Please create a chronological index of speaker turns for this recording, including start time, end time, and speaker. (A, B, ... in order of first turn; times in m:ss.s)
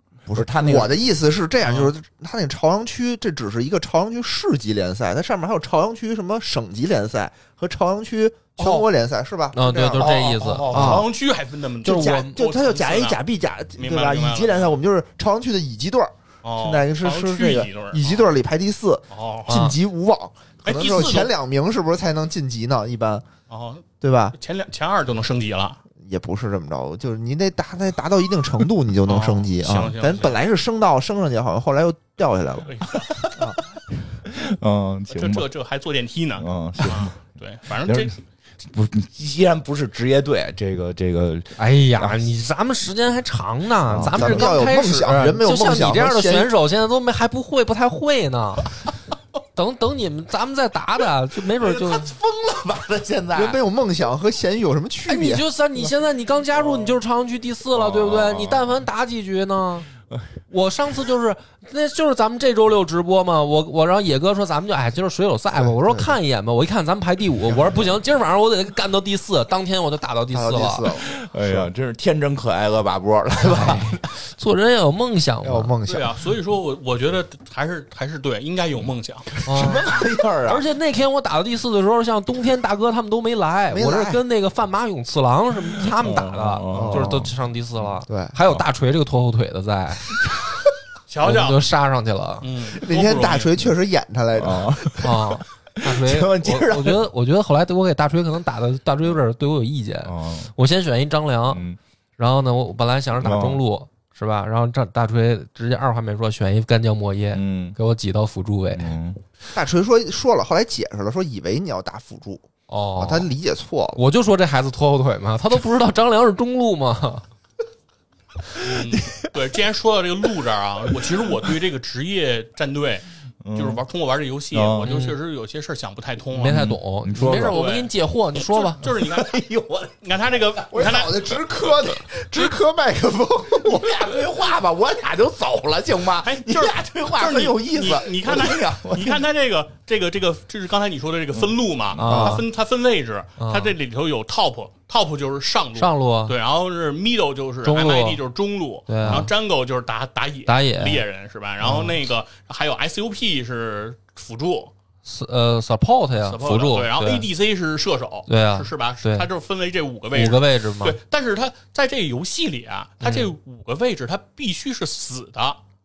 0:00.3-0:10.2 A
0:00.3-0:00.9 B
0:01.6-0:01.9 C
0:09.5-0:11.0 D
0:10.0-0:13.2 C
0:10.7-0:11.1 A
0:11.8-0:12.4 D
0:11.9-0:23.2 A
0:13.8-0:14.8 C
0:16.4-0:18.3 C
0:19.1-0:19.8 C
0:20.6-0:21.3 C
0:23.5-0:25.8 C
0:24.0-0:24.4 A
0:26.0-0:32.8 A
0:29.1-0:30.4 C
0:32.6-0:33.1 C
0:32.9-0:33.6 B
0:33.4-0:33.6 A
0:34.2-0:35.5 B
0:35.1-0:38.2 C
0:36.4-0:37.1 B
0:37.8-0:38.1 B
0:38.6-0:42.2 B
0:41.6-0:48.7 D
0:43.9-0:44.6 B
0:44.1-0:46.5 A
0:49.6-0:52.1 D
0:51.6-0:53.6 B
0:53.3-0:55.9 A
0:55.1-0:59.9 D
0:57.7-0:58.8 B
1:00.5-1:10.9 D
1:05.6-1:06.2 A
1:10.3-1:11.7 A
1:11.0-1:14.0 B
1:13.5-1:15.7 D
1:15.4-1:16.1 A
1:15.9-1:19.3 C
1:19.4-1:20.6 B
1:19.4-1:19.9 D
1:20.4-1:30.2 D
1:23.7-1:24.2 A
1:25.8-1:27.3 B
1:26.7-1:27.2 A
1:28.1-1:28.4 A
1:31.1-1:31.6 C
1:31.2-1:32.5 D
1:32.4-1:33.6 C
1:32.8-1:35.1 A
1:34.4-1:37.1 B
1:35.0-1:41.6 D
1:40.0-1:40.5 B
1:41.5-1:41.8 B
1:42.2-1:48.9 D
1:43.2-1:43.6 B
1:47.3-1:47.8 B
1:48.7-1:49.2 B
1:49.5-1:52.5 A
1:52.7-1:53.3 D
1:53.0-1:54.0 A
1:54.0-1:57.2 D
1:58.6-2:06.7 C
1:58.6-1:59.3 B
2:03.4-2:03.8 B
2:04.5-2:04.9 B
2:04.8-2:05.2 D
2:06.4-2:08.8 D
2:06.4-2:07.6 B
2:07.4-2:09.4 C
2:08.9-2:10.0 B
2:10.0-2:11.7 C
2:10.7-2:14.0 A
2:13.6-2:19.2 B
2:16.2-2:34.7 C
2:21.4-2:22.0 B
2:22.0-2:22.4 D
2:22.1-2:22.4 A
2:23.4-2:23.7 D
2:25.8-2:26.4 D
2:27.6-2:28.2 D
2:28.9-2:29.3 D
2:30.5-2:31.0 D
2:31.6-2:32.0 D
2:35.0-2:37.3 D
2:36.3-2:45.6 C
2:38.3-2:39.3 D
2:40.1-2:41.0 D
2:43.0-2:43.3 D